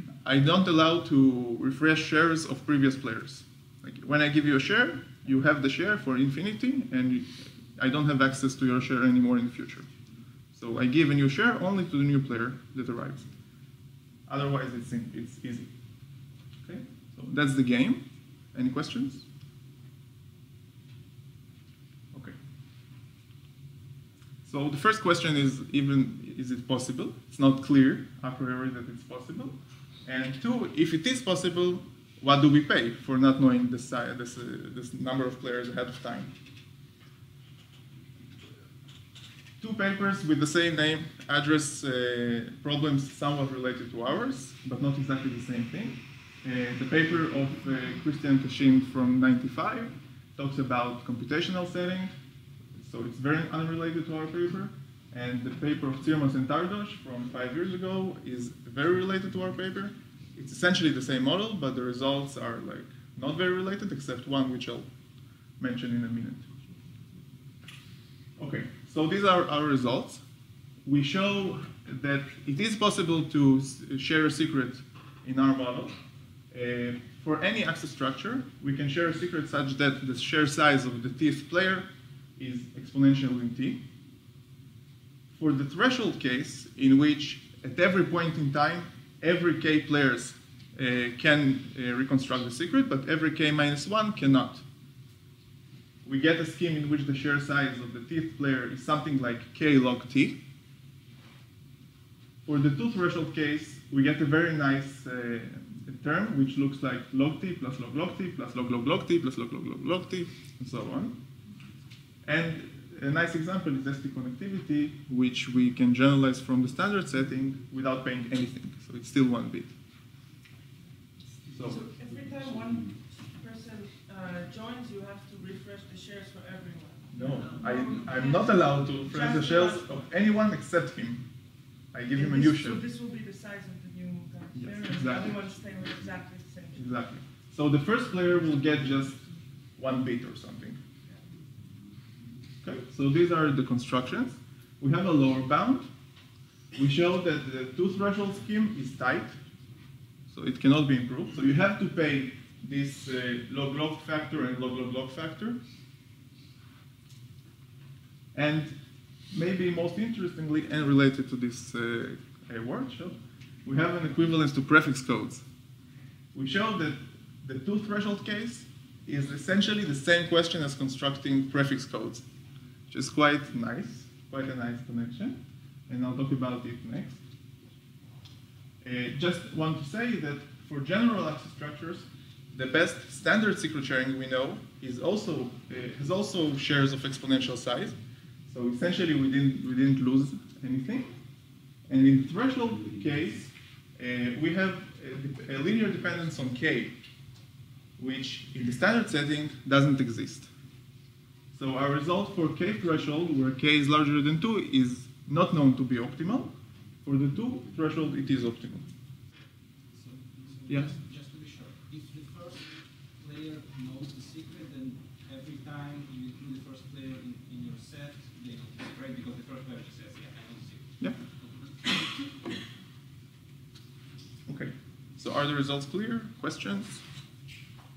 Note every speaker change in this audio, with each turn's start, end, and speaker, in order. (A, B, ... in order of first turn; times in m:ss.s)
0:00.2-0:09.9 A
0:10.5-0:13.3 A
0:14.3-0:15.7 A
0:16.6-0:19.2 A
0:24.4-0:36.3 A
0:39.6-0:52.1 A
0:52.8-1:04.9 A
1:05.6-1:06.5 A
1:08.4-1:10.2 A
1:10.8-1:15.9 A
1:16.5-1:23.8 A
1:25.3-1:34.6 A
1:36.0-1:40.4 A
1:42.4-1:51.2 A
1:52.2-1:59.7 A
2:01.5-2:01.8 A
2:01.6-2:09.9 B
2:07.1-2:11.2 A
2:11.9-2:12.8 A
2:12.1-2:16.8 B
2:14.5-2:15.5 A
2:16.8-2:19.3 A
2:19.8-2:20.8 A
2:22.6-2:25.8 A
2:26.7-2:29.4 A
2:30.3-2:35.6 A
2:38.3-2:38.7 A
2:39.3-2:45.4 A
2:46.3-2:52.2 A
2:52.9-2:57.2 A
2:58.8-3:08.0 A
3:08.5-3:11.1 A
3:11.9-3:16.9 A
3:18.0-3:20.5 A
3:21.5-3:28.9 A
3:29.9-3:40.8 C
3:30.7-3:30.9 A
3:41.4-3:42.1 C
3:44.5-3:47.0 A